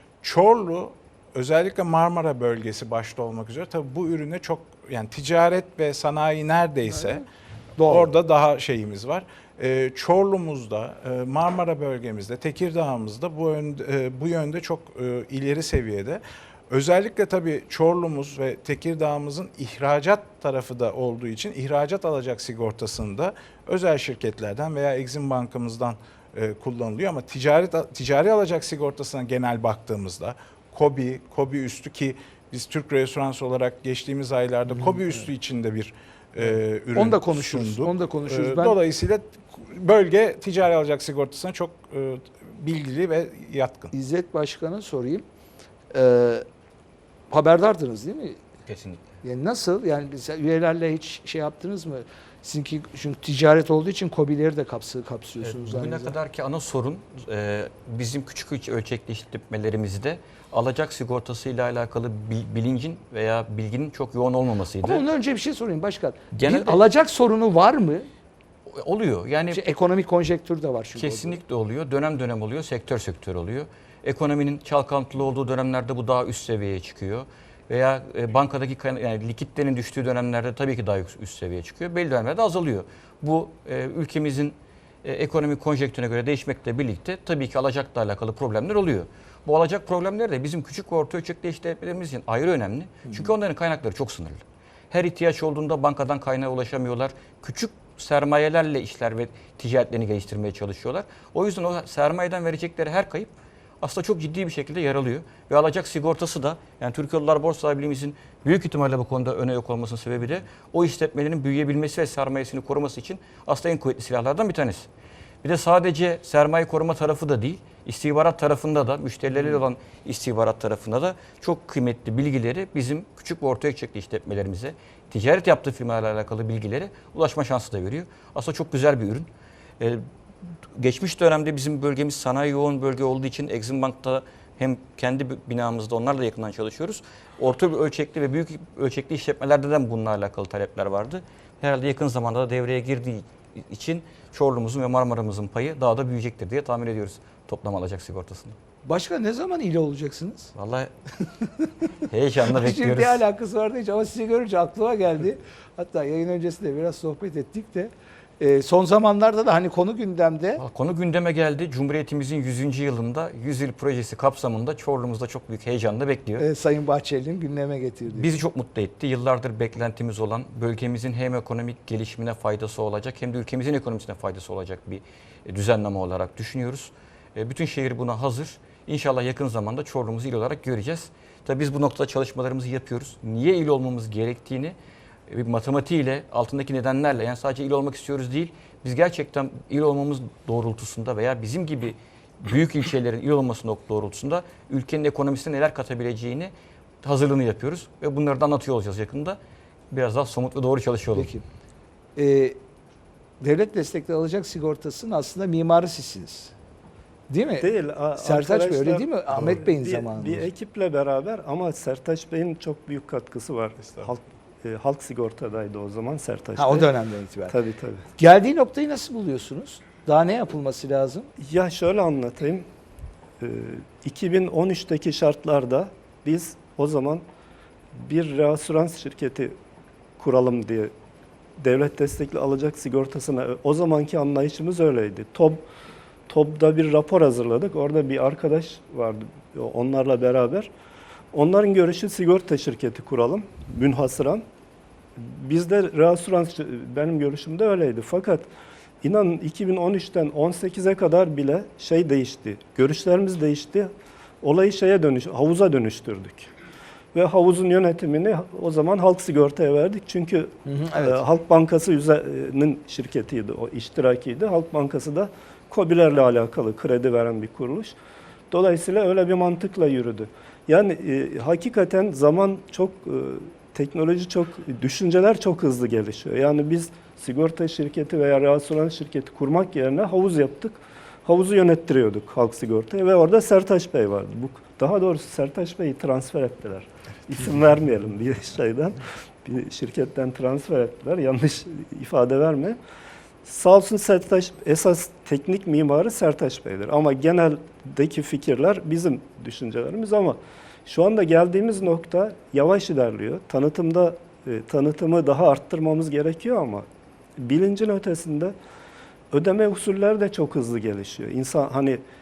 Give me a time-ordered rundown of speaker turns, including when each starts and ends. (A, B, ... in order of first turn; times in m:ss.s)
0:00.2-0:07.2 A
0:07.8-0:08.1 B
0:07.9-0:43.9 A
0:37.0-0:38.8 B
0:43.9-0:45.2 B
0:45.9-0:46.5 B
0:47.3-0:48.4 B
0:48.7-0:49.1 C
0:49.2-0:56.2 B
0:55.4-1:05.0 C
1:04.8-1:08.1 B
1:06.3-1:06.8 C
1:08.7-1:09.6 C
1:09.5-1:11.4 B
1:11.0-1:54.9 C
1:33.1-1:33.3 B
1:55.4-2:09.3 C
2:09.8-2:10.0 C
2:10.7-2:28.6 C
2:28.8-2:30.5 B
2:30.6-2:30.9 C
2:31.6-2:31.9 B
2:32.1-2:33.2 C
2:32.5-2:40.6 B
2:40.6-2:46.4 C
2:46.4-2:48.3 B
2:48.2-3:04.8 C
3:05.3-3:16.5 C
3:17.0-3:19.4 C
3:19.9-3:21.3 C
3:21.2-3:21.4 B
3:22.2-3:22.6 B
3:23.4-3:26.5 B
3:27.3-3:30.5 B
3:27.6-3:36.9 D
3:33.8-3:34.1 A
3:36.6-3:37.6 B
3:37.5-3:38.0 D
3:38.2-3:41.3 B
3:41.4-3:42.7 D
3:43.4-3:47.2 D
3:47.9-3:49.6 D
3:50.2-3:50.9 D
3:51.6-3:55.7 D
3:56.3-4:00.7 D
4:01.3-4:04.4 D
4:05.2-4:08.5 D
4:09.0-4:13.9 D
4:14.4-4:16.5 D
4:17.1-4:28.0 D
4:20.7-4:21.2 B
4:28.5-4:52.8 D
4:53.4-5:08.6 D
5:09.3-5:12.0 D